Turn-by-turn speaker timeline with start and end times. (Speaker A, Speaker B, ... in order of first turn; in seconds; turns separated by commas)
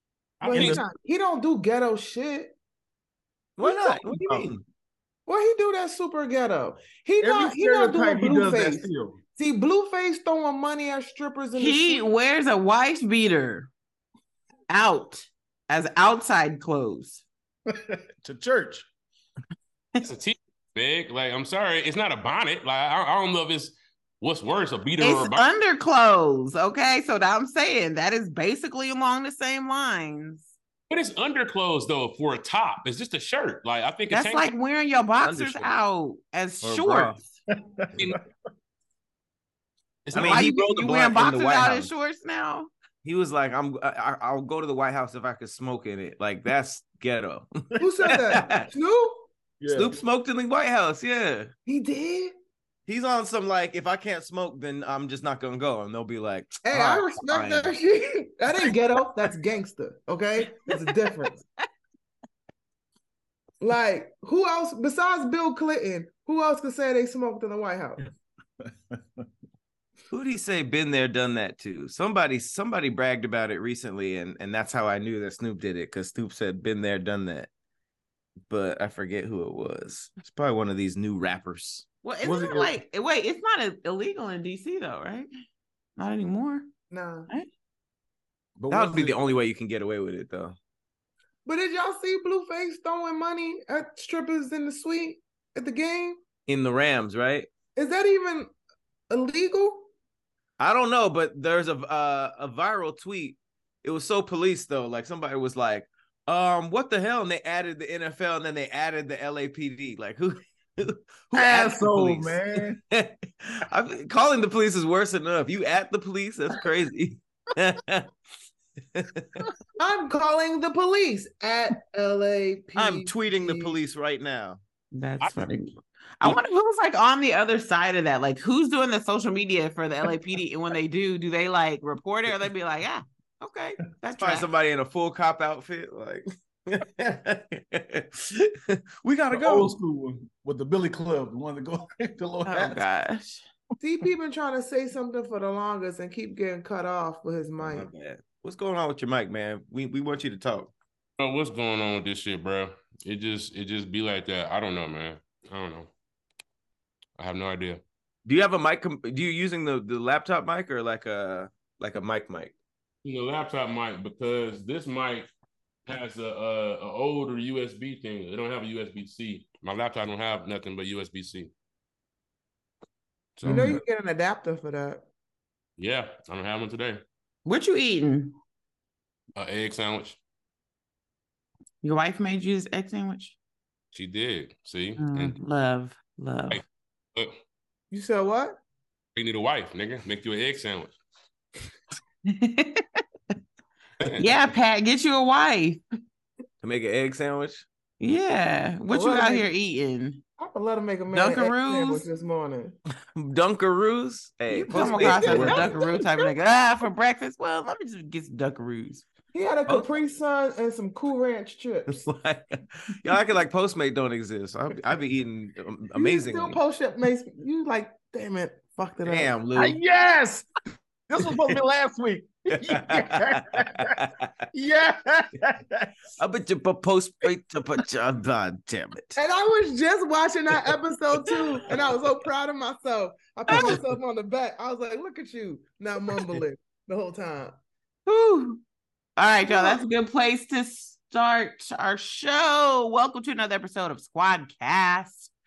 Speaker A: 0.4-2.5, Speaker B: 0.4-0.9, Speaker C: 0.5-0.8, Speaker D: 3.6-4.6, Speaker A: 3.6-4.4, Speaker A: 5.3-8.8, Speaker B: 7.2-9.2, Speaker A: 9.4-12.0, Speaker E: 11.6-13.7, Speaker E: 14.7-17.2, Speaker B: 17.7-18.9, Speaker C: 20.0-25.5, Speaker E: 25.0-30.5, Speaker C: 30.9-34.5, Speaker E: 34.1-37.2, Speaker D: 35.2-35.7, Speaker D: 36.6-37.2, Speaker B: 37.8-38.2, Speaker C: 40.1-40.6, Speaker D: 40.1-41.9, Speaker E: 40.2-42.7, Speaker D: 43.0-47.5, Speaker A: 47.8-49.3, Speaker D: 48.0-48.7, Speaker B: 49.6-50.0, Speaker D: 49.7-51.5, Speaker A: 51.7-52.3, Speaker D: 52.9-57.7, Speaker A: 56.6-61.4, Speaker A: 63.6-68.0, Speaker B: 68.6-69.3, Speaker D: 70.1-77.5, Speaker D: 78.5-81.9, Speaker E: 82.0-85.3, Speaker B: 82.2-82.8, Speaker E: 86.0-86.7, Speaker A: 86.9-87.3, Speaker B: 88.6-89.2, Speaker D: 88.7-90.5, Speaker A: 91.5-96.2, Speaker D: 96.5-97.5, Speaker A: 97.8-98.5, Speaker A: 99.1-99.9, Speaker D: 100.6-118.1, Speaker B: 111.3-112.8, Speaker D: 118.9-119.4, Speaker A: 119.8-123.8, Speaker D: 122.8-124.6, Speaker E: 124.9-134.5, Speaker C: 125.2-125.5, Speaker D: 134.2-139.7, Speaker B: 139.3-142.8, Speaker E: 142.5-143.5, Speaker A: 143.8-147.9, Speaker D: 147.6-150.7, Speaker C: 151.2-155.9, Speaker C: 157.2-157.8, Speaker D: 158.3-162.6, Speaker C: 163.0-165.3, Speaker C: 165.9-171.5, Speaker C: 173.4-173.8, Speaker B: 173.4-173.8, Speaker A: 173.5-175.1, Speaker C: 175.8-177.0, Speaker E: 177.4-178.3, Speaker C: 179.4-180.2, Speaker E: 181.8-183.4, Speaker C: 183.9-185.3, Speaker E: 185.0-186.6, Speaker A: 187.9-188.6, Speaker C: 189.2-190.9, Speaker E: 192.3-193.0, Speaker E: 194.2-195.8, Speaker D: 196.6-197.7, Speaker E: 198.0-200.2, Speaker A: 198.9-199.5, Speaker A: 200.4-202.8, Speaker E: 201.1-202.1, Speaker D: 203.2-205.9, Speaker E: 204.5-209.1, Speaker A: 204.5-206.3, Speaker A: 209.3-212.1, Speaker D: 211.9-216.6, Speaker A: 215.9-219.4, Speaker D: 219.0-219.8, Speaker B: 219.6-220.5, Speaker B: 221.1-225.9, Speaker D: 222.5-224.3, Speaker D: 226.2-229.2, Speaker A: 229.2-237.6, Speaker E: 233.5-233.8, Speaker D: 233.5-233.8, Speaker E: 238.1-238.6, Speaker E: 239.2-245.3, Speaker A: 239.5-239.8